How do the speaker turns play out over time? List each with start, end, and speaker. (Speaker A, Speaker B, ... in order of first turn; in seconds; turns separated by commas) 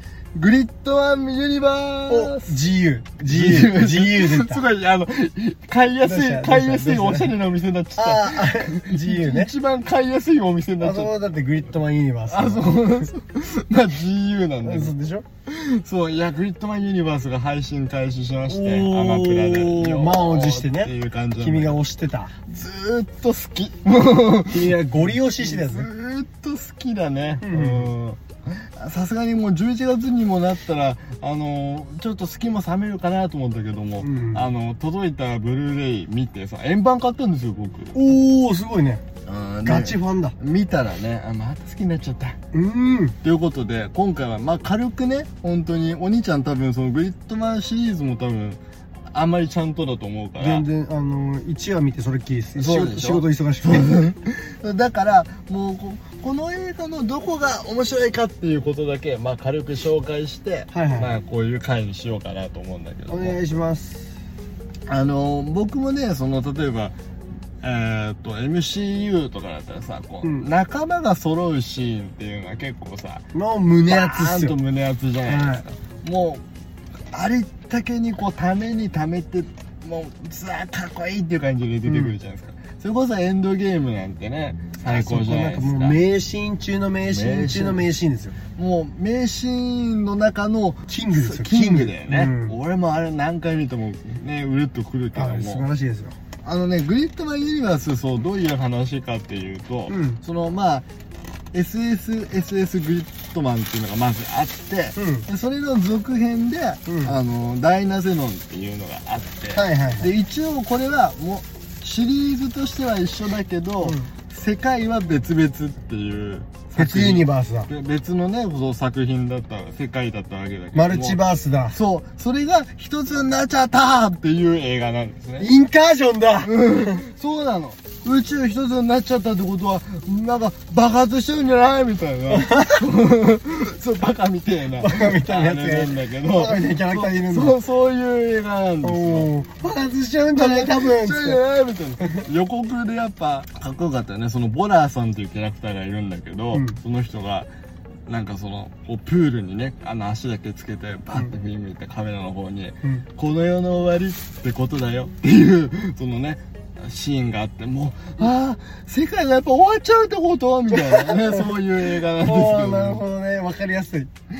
Speaker A: 0.3-2.6, Speaker B: 2.1-4.6, Speaker A: 3.3-11.1, Speaker B: 6.0-7.3, Speaker B: 8.0-9.5, Speaker B: 10.8-12.8, Speaker A: 12.3-14.9, Speaker B: 14.6-15.2, Speaker A: 15.5-21.8, Speaker B: 18.5-22.4, Speaker A: 22.5-24.9, Speaker B: 24.5-25.9, Speaker A: 25.4-37.9, Speaker B: 27.4-27.9, Speaker B: 34.0-34.5, Speaker B: 37.9-39.0, Speaker A: 39.2-42.4, Speaker B: 39.6-40.3, Speaker B: 42.5-43.1, Speaker A: 43.2-48.6, Speaker A: 49.1-50.6, Speaker B: 50.4-54.0, Speaker A: 52.5-63.4, Speaker B: 60.7-61.1, Speaker B: 63.1-64.1, Speaker A: 64.9-67.0, Speaker A: 67.6-73.2, Speaker B: 73.3-74.6, Speaker A: 73.9-76.4, Speaker B: 75.3-75.6, Speaker A: 77.1-86.0, Speaker B: 81.8-82.1, Speaker B: 84.8-88.3, Speaker A: 87.0-87.8, Speaker A: 88.5-95.7, Speaker B: 90.9-92.5, Speaker B: 95.1-96.2, Speaker A: 96.4-100.8, Speaker B: 99.9-100.2, Speaker A: 101.5-125.5, Speaker B: 105.0-105.3, Speaker B: 106.8-107.2, Speaker B: 109.5-110.1, Speaker B: 113.8-114.1, Speaker B: 116.8-117.7, Speaker B: 120.7-121.8, Speaker B: 125.4-127.0, Speaker A: 126.4-139.3, Speaker B: 132.3-132.8, Speaker B: 134.8-137.6, Speaker B: 138.8-141.4, Speaker A: 140.3-147.5, Speaker B: 146.5-146.8, Speaker A: 148.1-163.0, Speaker B: 160.7-161.4, Speaker B: 162.2-164.1